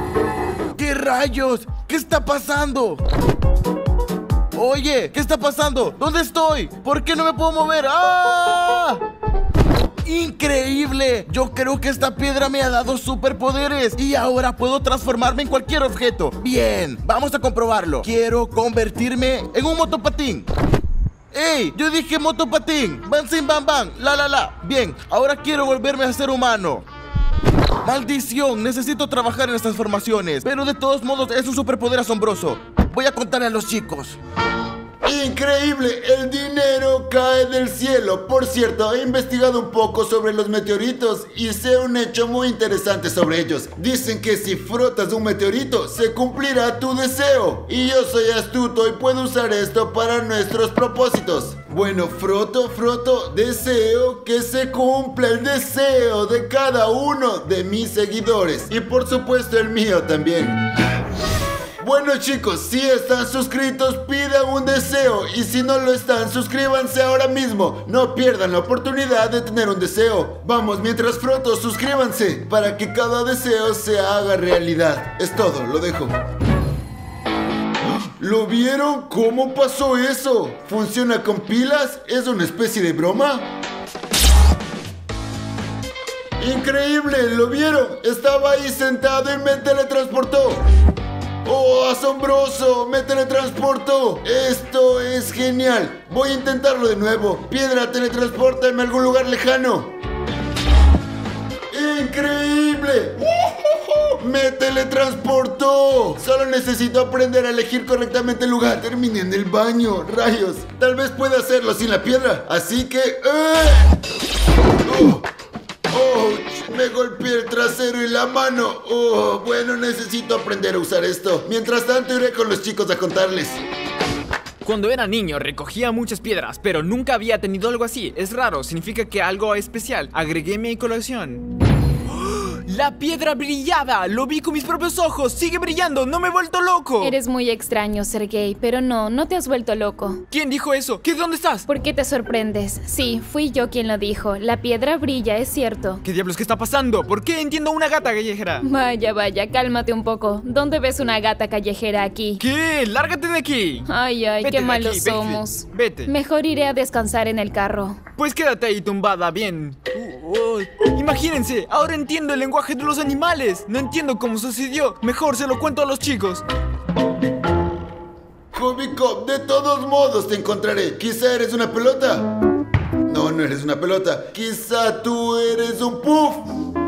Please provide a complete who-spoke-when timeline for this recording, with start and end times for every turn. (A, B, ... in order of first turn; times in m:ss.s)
0:00.8-0:03.0 A
0:04.5-0:09.0 A
0:10.0-0:20.5 A
0:21.3-0:26.9 A
0:27.8-0:34.2 A
0:35.0-1:00.6 B
1:01.8-1:16.2 B
1:18.2-1:23.5 B
1:26.4-1:30.6 B
1:31.4-1:39.9 B
1:41.7-1:54.0 B
1:54.8-1:55.2 B
1:55.9-2:03.6 B
2:04.6-2:11.5 C
2:12.1-2:17.2 C
2:17.0-2:20.2 D
2:20.3-2:21.7 C
2:21.7-2:26.0 D
2:26.0-2:28.6 C
2:28.6-2:32.4 D
2:32.4-2:33.9 C
2:33.9-2:38.0 D
2:34.4-2:36.1 C
2:38.2-2:46.4 C
2:48.5-2:52.3 B
2:53.1-2:56.5 B